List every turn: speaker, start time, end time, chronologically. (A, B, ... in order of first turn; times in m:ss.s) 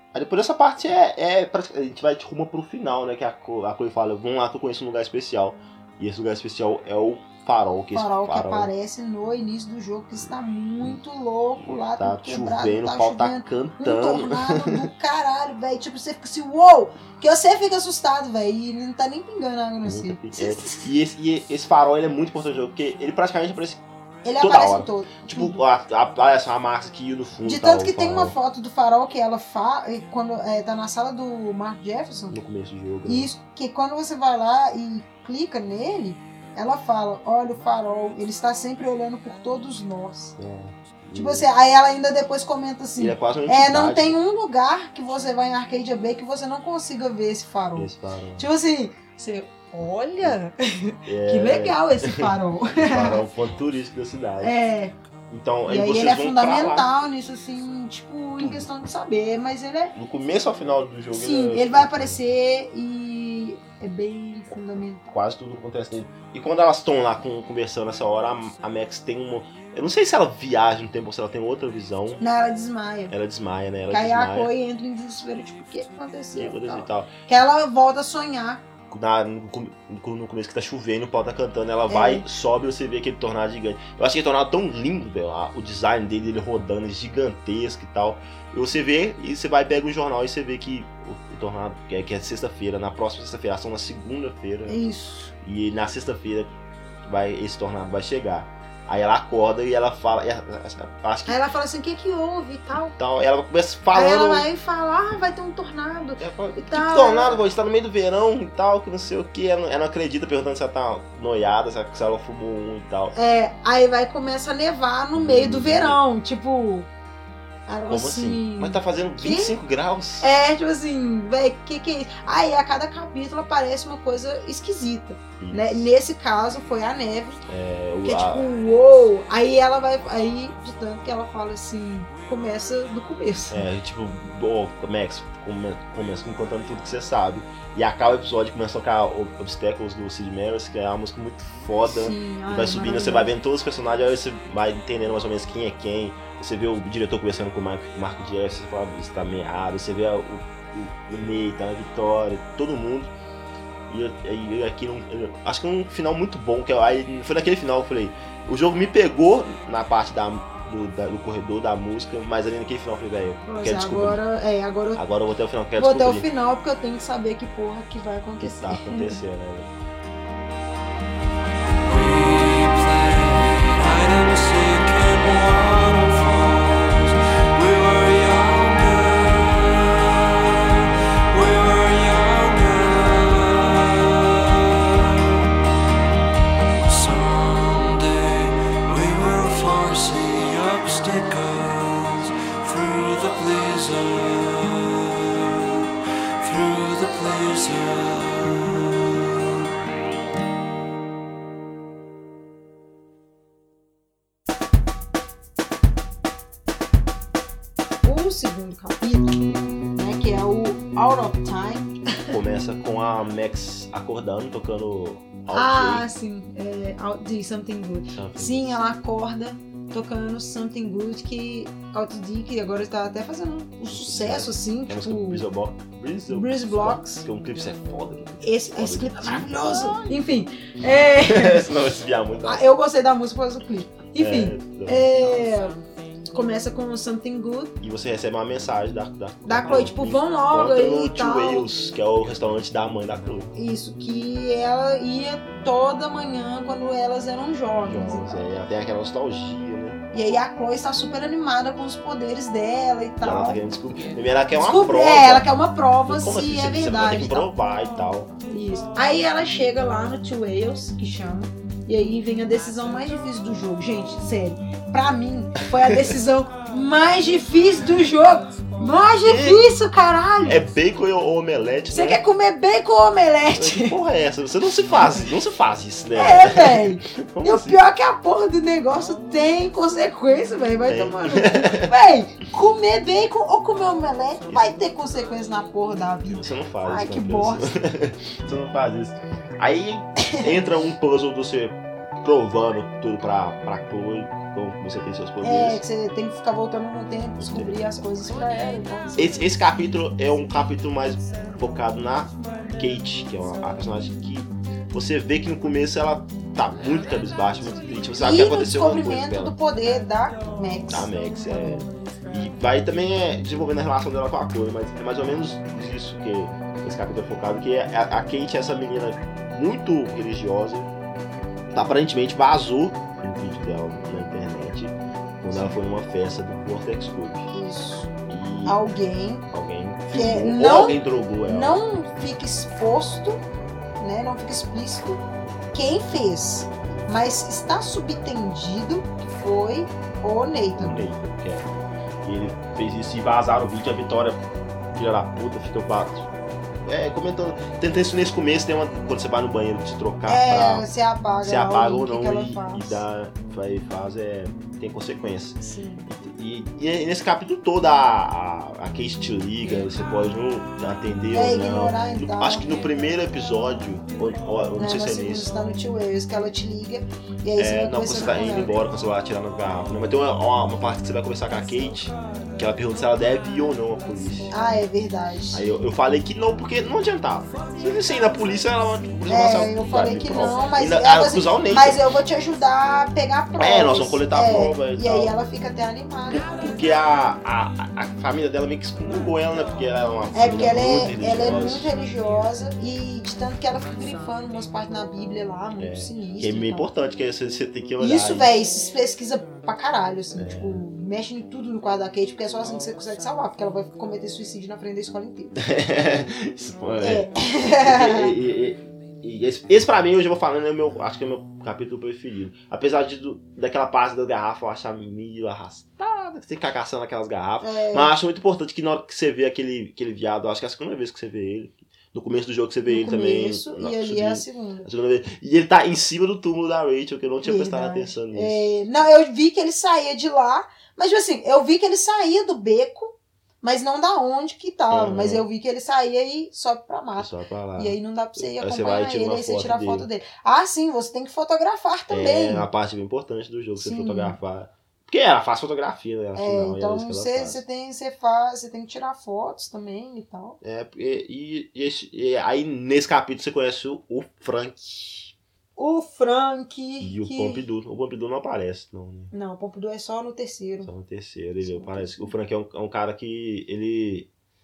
0:00.1-0:08.7 A
0:07.9-0:20.9 B
0:11.9-0:14.9 A
0:19.8-0:23.8 A
0:24.2-0:25.6 B
0:24.4-0:28.4 A
0:27.4-0:32.4 B
0:32.3-0:33.3 A
0:33.0-0:40.4 B
0:40.4-0:41.5 A
0:41.1-0:53.2 B
0:43.0-0:44.2 A
0:47.8-0:48.5 A
0:51.1-0:54.6 A
0:54.4-0:55.0 B
0:55.3-0:56.9 A
0:55.7-0:59.9 B
0:58.4-0:58.7 A
0:59.9-1:02.2 A
1:01.1-1:05.1 B
1:05.1-1:12.2 A
1:12.2-1:13.1 B
1:13.1-1:14.5 A
1:13.9-1:18.6 B
1:16.4-1:17.1 A
1:18.9-1:34.8 A
1:21.9-1:22.2 B
1:34.6-1:35.3 B
1:35.4-1:36.5 A
1:37.0-1:41.4 A
1:41.2-1:43.0 B
1:43.0-1:44.5 A
1:43.9-1:47.4 B
1:46.2-1:53.1 A
1:53.1-1:56.9 B
1:55.1-1:56.0 A
1:57.7-1:59.6 B
1:57.9-2:00.3 A
2:00.2-2:07.4 B
2:05.4-2:05.9 A
2:07.5-2:08.4 A
2:08.0-2:13.7 B
2:13.5-2:33.1 A
2:21.9-2:23.3 B
2:33.9-2:44.2 A
2:43.4-2:45.0 B
2:44.9-2:46.2 A
2:45.8-2:49.2 B
2:48.4-2:49.7 A
2:51.8-3:05.5 C
3:06.8-3:15.8 C
3:16.4-3:19.3 C
3:28.0-3:32.3 B
3:32.3-3:36.1 A
3:35.5-3:45.4 B
3:38.1-3:38.8 A
3:43.9-3:50.1 A
3:46.3-3:47.2 B
3:48.4-3:51.7 B
3:51.2-3:52.6 A
3:52.4-3:57.8 B
3:54.2-3:55.1 A
3:57.8-4:03.5 A
3:59.4-4:01.7 B
4:03.6-4:08.4 B
4:07.8-4:10.0 A
4:10.1-4:13.6 B
4:13.2-4:15.5 A
4:14.6-4:17.5 B
4:16.1-4:18.3 A
4:18.5-4:30.6 B
4:25.8-4:26.1 A
4:29.2-4:29.6 A
4:30.4-4:32.2 A
4:31.9-4:34.0 B
4:33.5-4:37.8 A
4:36.1-4:47.7 B
4:40.9-4:41.9 A
4:44.5-4:44.7 A
4:46.4-4:55.8 A
4:55.4-4:59.4 B
4:57.4-4:57.8 A
4:59.2-5:09.6 A
5:08.2-5:11.1 B
5:10.9-5:20.9 A
5:21.7-5:27.5 A
5:27.5-5:28.1 B
5:28.3-5:28.8 A
5:28.6-5:29.4 B
5:29.5-5:31.8 A
5:30.1-5:33.4 B
5:34.0-5:35.2 B
5:35.7-5:41.1 B
5:40.8-5:41.7 A
5:42.2-5:46.3 A
5:46.8-5:50.9 A
5:50.3-5:53.0 B
5:51.4-6:05.5 A
5:55.6-5:56.1 B
6:01.3-6:02.7 B
6:04.8-6:08.7 B
6:07.6-6:14.6 A
6:14.5-6:15.7 B
6:15.5-6:22.0 A
6:19.3-6:26.5 B
6:23.6-6:25.4 A
6:26.3-6:31.9 A
6:30.3-6:36.9 B
6:35.8-6:38.5 A
6:38.0-6:45.6 B
6:40.4-6:40.8 A
6:45.6-7:08.8 A
6:47.0-6:48.3 B
6:57.6-6:58.1 B
7:02.9-7:04.9 B
7:07.4-7:22.7 B
7:14.9-7:15.4 A
7:17.2-7:20.1 A
7:22.1-7:27.6 A
7:23.8-7:24.4 B
7:26.4-7:30.6 B
7:30.6-7:35.3 A
7:35.8-7:37.6 B
7:37.0-7:39.3 A
7:39.3-7:40.9 B
7:40.8-7:44.3 A
7:41.6-7:42.3 B